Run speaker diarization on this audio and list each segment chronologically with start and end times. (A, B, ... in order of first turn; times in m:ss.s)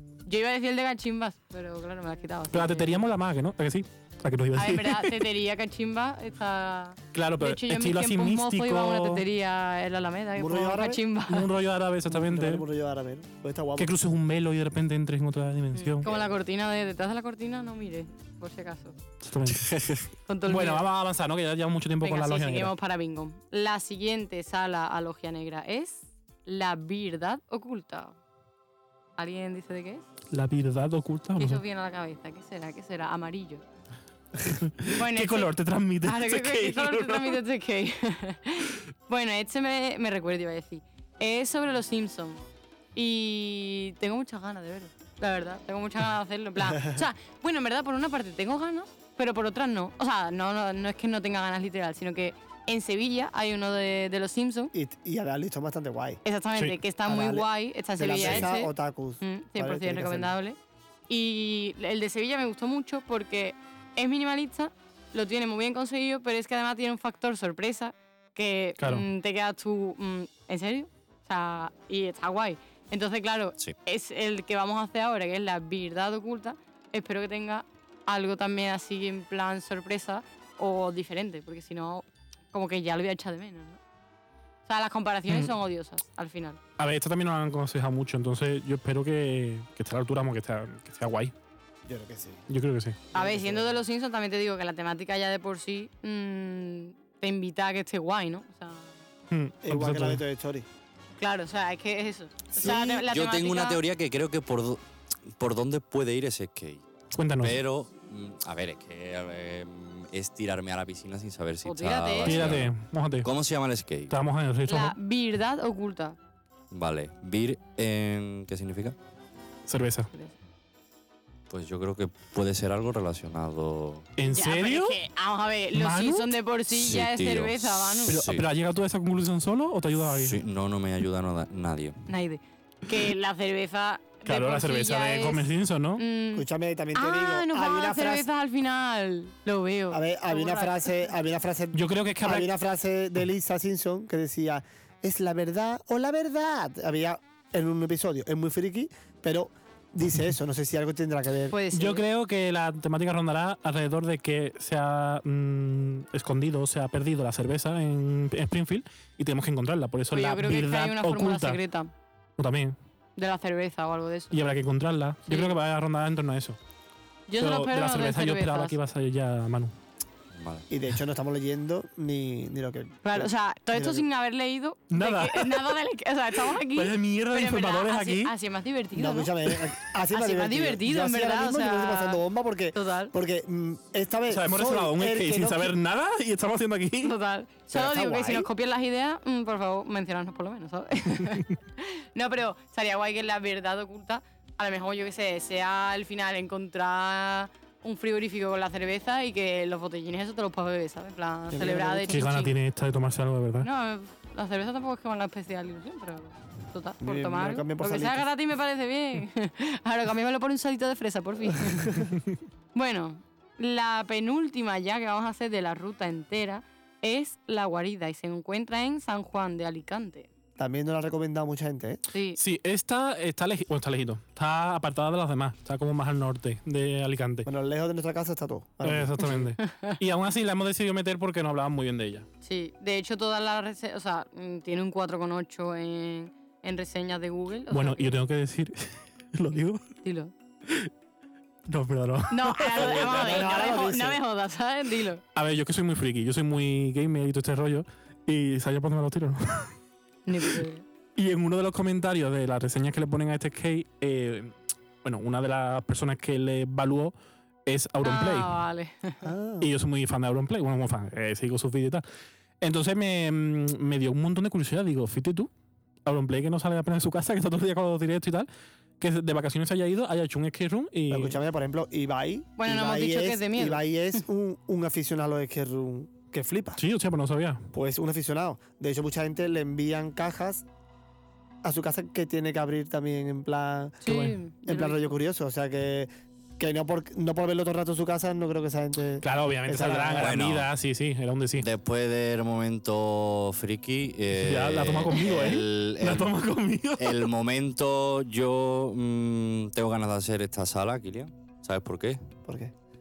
0:00.3-0:03.0 A
0:02.5-0:05.2 B
0:04.6-0:11.5 A
0:07.1-0:09.2 B
0:10.4-0:11.0 C
0:11.3-0:12.6 B
0:12.1-0:14.0 C
0:13.8-0:16.1 B
0:15.7-0:19.0 A
0:16.0-0:16.3 C
0:19.2-0:22.7 B
0:20.3-0:20.9 A
0:22.0-0:28.2 A
0:29.2-0:30.1 A
0:30.3-0:31.6 B
0:31.4-0:33.6 A
0:34.4-0:37.4 B
0:34.9-0:42.4 A
0:43.0-0:54.7 A
0:46.7-0:47.1 C
0:54.7-0:56.2 C
0:56.2-1:00.6 A
0:57.1-1:00.4 C
0:58.2-0:58.5 D
1:01.1-1:23.8 A
1:08.8-1:09.0 B
1:24.7-1:26.6 A
1:26.8-1:31.3 B
1:31.9-1:32.4 C
1:32.5-1:33.0 B
1:33.1-1:33.8 C
1:33.1-1:39.0 A
1:39.3-1:40.2 B
1:39.6-1:40.7 C
1:41.2-1:43.8 A
1:42.6-1:44.8 D
1:45.3-1:46.8 D
1:47.1-1:47.6 B
1:47.4-1:52.7 D
1:51.6-1:52.6 A
1:52.2-1:53.3 B
1:53.2-1:54.1 D
1:54.1-1:55.0 B
1:54.7-1:56.2 A
1:56.7-1:59.0 D
1:59.7-2:00.1 B
2:01.5-2:04.1 D
2:04.2-2:05.0 B
2:04.3-2:08.2 A
2:05.7-2:06.3 B
2:06.7-2:08.5 D
2:08.1-2:10.4 B
2:10.1-2:12.0 D
2:12.1-2:21.1 A
2:14.3-2:16.0 B
2:16.3-2:18.3 C
2:19.9-2:31.6 C
2:21.7-2:22.5 B
2:31.5-2:32.0 A
2:31.7-2:41.6 B
2:40.1-2:41.9 A
2:42.4-2:42.8 B
2:43.2-2:44.4 A
2:44.3-2:46.6 B
2:45.3-2:45.6 A
2:47.3-2:48.8 A
2:47.4-2:49.8 B
2:50.3-2:50.7 D
2:50.7-2:54.1 C
2:53.0-2:59.4 A
2:54.9-2:55.8 B
2:56.6-2:58.3 B
2:58.9-3:05.8 C
3:00.1-3:02.2 A
3:02.7-3:03.1 A
3:04.3-3:07.2 B
3:07.0-3:22.5 A
3:07.7-3:08.5 C
3:21.5-3:22.2 C
3:22.1-3:23.7 B
3:23.6-3:32.1 A
3:27.0-3:28.3 C
3:31.8-3:32.1 C
3:32.7-3:40.3 A
3:40.6-3:42.0 C
3:42.1-3:42.4 A
3:42.4-3:47.5 B
3:47.4-3:49.5 C
3:48.8-3:52.3 B
3:49.6-3:50.0 A
3:52.4-3:58.2 A
3:57.7-3:59.8 B
4:00.0-4:00.3 A
4:01.7-4:03.4 B
4:02.3-4:05.2 A
4:02.8-4:04.2 C
4:05.4-4:09.8 B
4:10.3-4:10.8 A
4:11.2-4:17.1 B
4:17.7-4:18.6 B
4:18.0-4:19.3 A
4:19.2-4:19.7 C
4:19.6-4:22.0 B
4:22.6-4:25.5 B
4:26.1-4:28.5 B
4:29.0-4:31.4 B
4:31.1-4:36.8 C
4:32.6-4:34.2 A
4:36.8-4:37.7 B
4:37.7-4:40.6 C
4:41.6-4:44.0 C
4:44.0-4:45.2 A
4:44.0-4:44.4 B
4:44.6-4:50.4 C
4:49.2-4:51.7 B
4:50.2-4:50.7 D
4:51.6-4:56.3 D
4:54.4-4:57.3 B
4:57.0-5:02.3 D
5:02.4-5:02.7 C